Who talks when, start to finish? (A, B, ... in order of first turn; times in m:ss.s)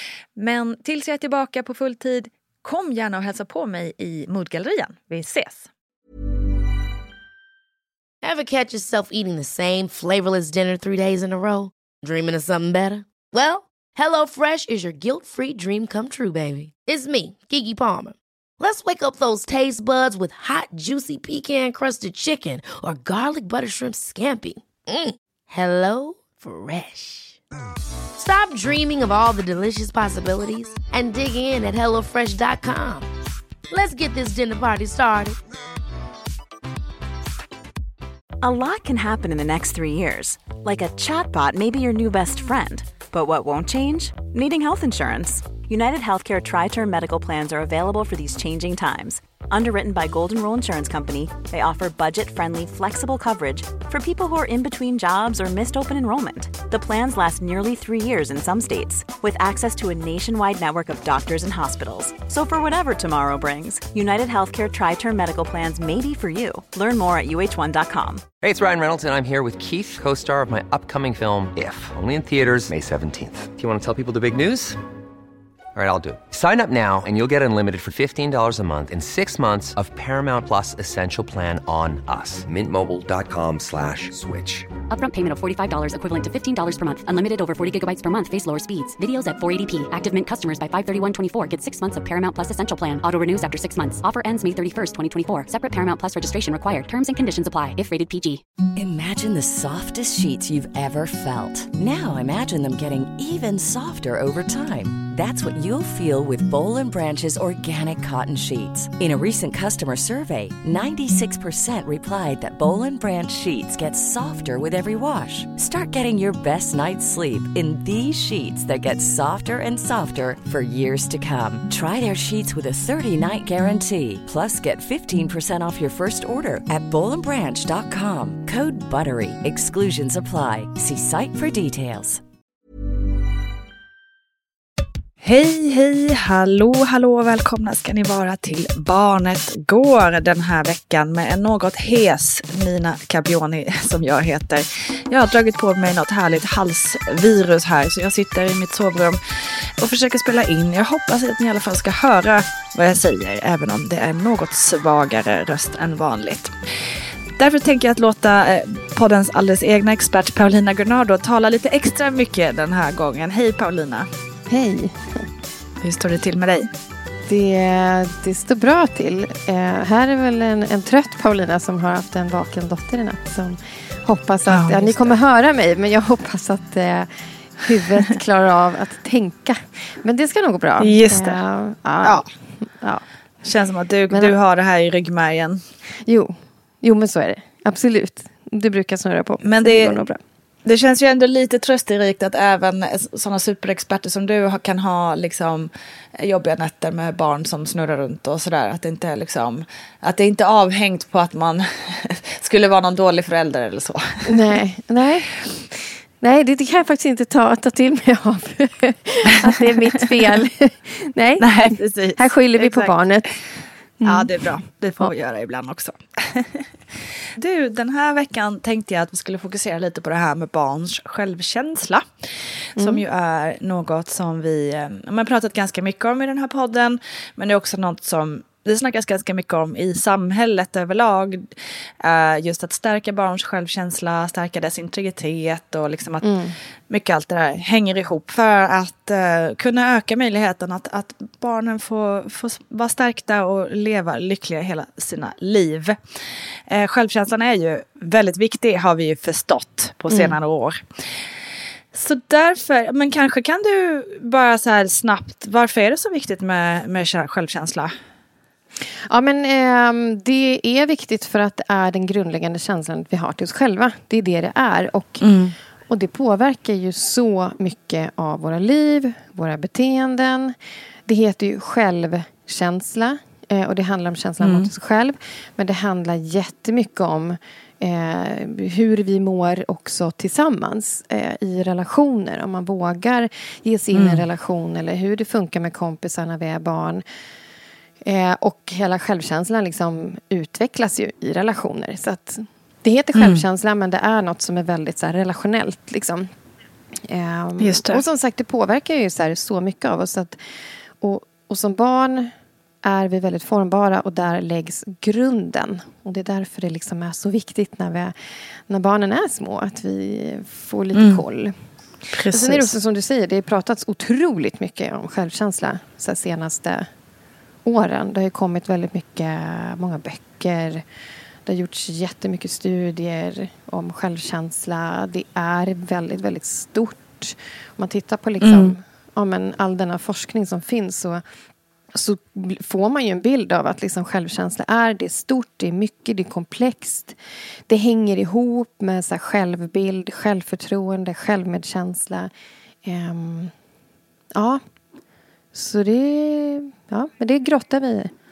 0:00.4-0:05.7 A
0:08.2-0:27.4 B
0:28.2-0:33.1 B
0:33.7-0:35.4 B
0:38.4-1:08.3 C
1:08.4-1:14.8 D
1:15.8-1:24.7 D
1:24.9-1:38.4 E
1:38.8-2:12.2 F
2:15.2-2:44.1 A
2:44.5-2:45.3 G
2:45.8-2:46.7 A
2:47.3-3:03.0 G
2:54.5-2:55.2 A
3:00.8-3:01.4 A
3:03.4-3:05.6 A
3:06.0-3:10.2 G
3:09.4-3:10.0 A
3:10.7-3:24.5 A
3:24.3-3:34.4 G
3:29.4-3:30.0 A
3:31.4-3:33.3 A
3:34.0-3:36.7 A
3:37.4-3:56.3 A
3:42.8-3:43.0 G
3:56.2-3:56.6 G
3:56.9-4:06.0 A
4:06.7-4:10.8 A
4:10.1-4:10.4 G
4:11.9-4:17.9 A
4:19.1-4:25.3 G
4:25.2-4:25.6 A
4:25.9-4:47.0 G
4:34.4-4:34.7 A
4:43.9-4:44.2 A
4:48.0-4:56.3 G
4:53.2-4:53.4 A
4:57.1-5:00.4 G
4:57.6-4:58.0 A
5:01.0-5:02.3 G
5:02.8-5:08.2 G
5:08.7-5:11.5 G
5:10.9-5:11.2 A
5:12.1-5:12.8 A
5:12.3-5:16.9 G
5:17.6-5:20.8 G
5:21.5-5:31.2 G
5:28.4-5:28.8 A
5:31.9-5:37.2 G
5:37.7-5:42.3 G
5:42.8-5:43.5 G
5:44.4-5:44.6 G
5:45.5-5:48.1 G